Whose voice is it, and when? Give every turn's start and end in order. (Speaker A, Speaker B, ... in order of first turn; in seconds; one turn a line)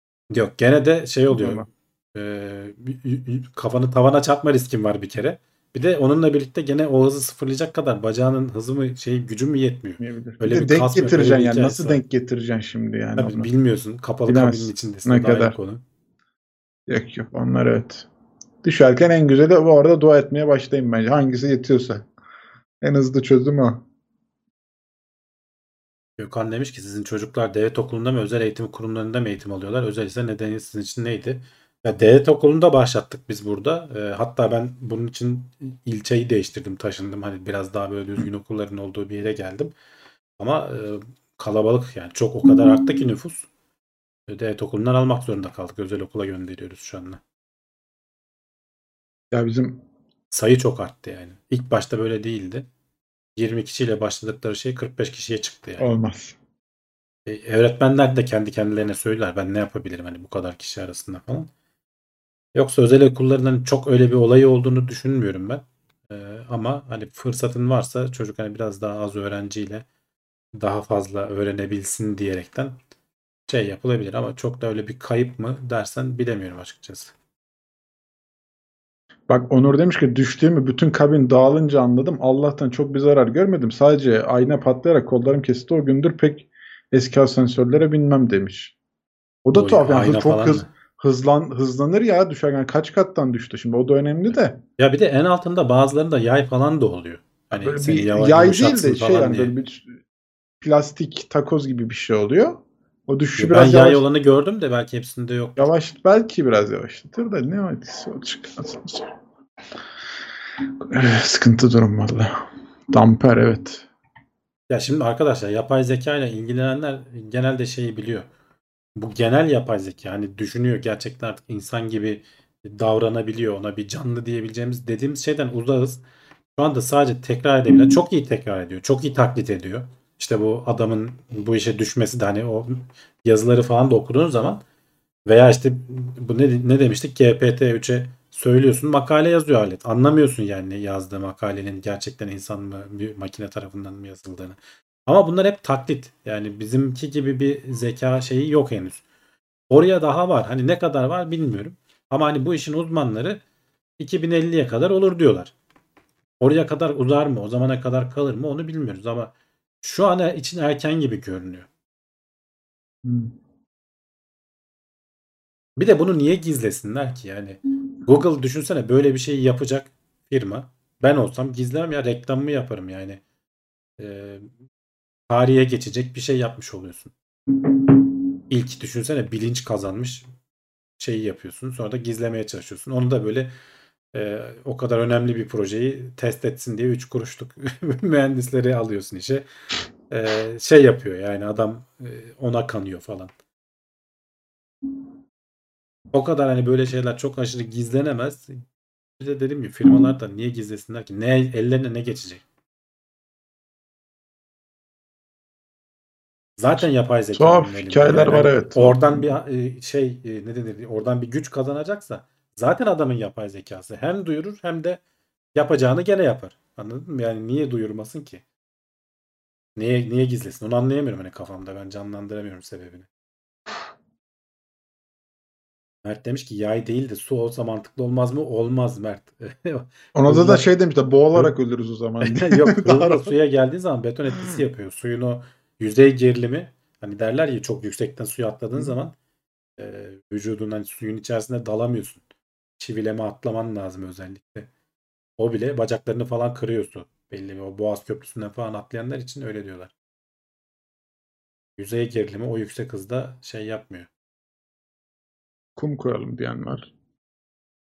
Speaker A: 0.3-12.0
Speaker B: 1.3-1.7
Speaker B: 10.0-13.5
Speaker A: 13.2-15.8
Speaker B: 14.3-15.6
Speaker B: 16.9-18.1
Speaker B: 18.6-22.1
Speaker B: 22.8-23.8
Speaker A: 26.2-39.7
Speaker A: 40.4-43.5
Speaker A: 44.3-47.2
Speaker B: 49.3-49.8
Speaker A: 50.3-52.7
Speaker A: 53.4-55.9
Speaker B: 55.8-56.4
Speaker A: 57.3-61.5
Speaker A: 62.5-69.9
Speaker A: 70.5-72.8
Speaker A: 73.5-77.1
Speaker B: 79.3-88.8
Speaker B: 89.4-94.6
Speaker A: 89.5-90.7
Speaker A: 94.8-99.5
Speaker B: 97.6-99.9
Speaker B: 100.6-104.0
Speaker A: 103.4-105.7
Speaker B: 105.6-109.1
Speaker B: 110.8-113.9
Speaker A: 114.7-118.3
Speaker A: 119.0-126.0
Speaker A: 126.6-134.6
Speaker A: 135.3-149.0
Speaker A: 149.7-153.4
Speaker A: 154.0-155.5
Speaker A: 156.4-161.7
Speaker B: 163.1-163.3
Speaker A: 165.8-173.2
Speaker A: 174.0-174.5
Speaker A: 175.3-177.1
Speaker A: 178.5-180.3
Speaker A: 181.0-183.5
Speaker A: 184.1-189.5
Speaker A: 190.1-193.3
Speaker A: 196.1-198.6
Speaker A: 199.2-202.4
Speaker A: 206.6-215.0
Speaker B: 207.3-209.3
Speaker A: 215.6-218.4
Speaker A: 219.8-223.1
Speaker A: 226.0-230.7
Speaker B: 230.2-233.3
Speaker A: 232.2-239.2
Speaker A: 239.8-242.2
Speaker A: 242.8-244.7
Speaker A: 245.4-249.9
Speaker A: 251.8-254.1
Speaker B: 255.8-256.9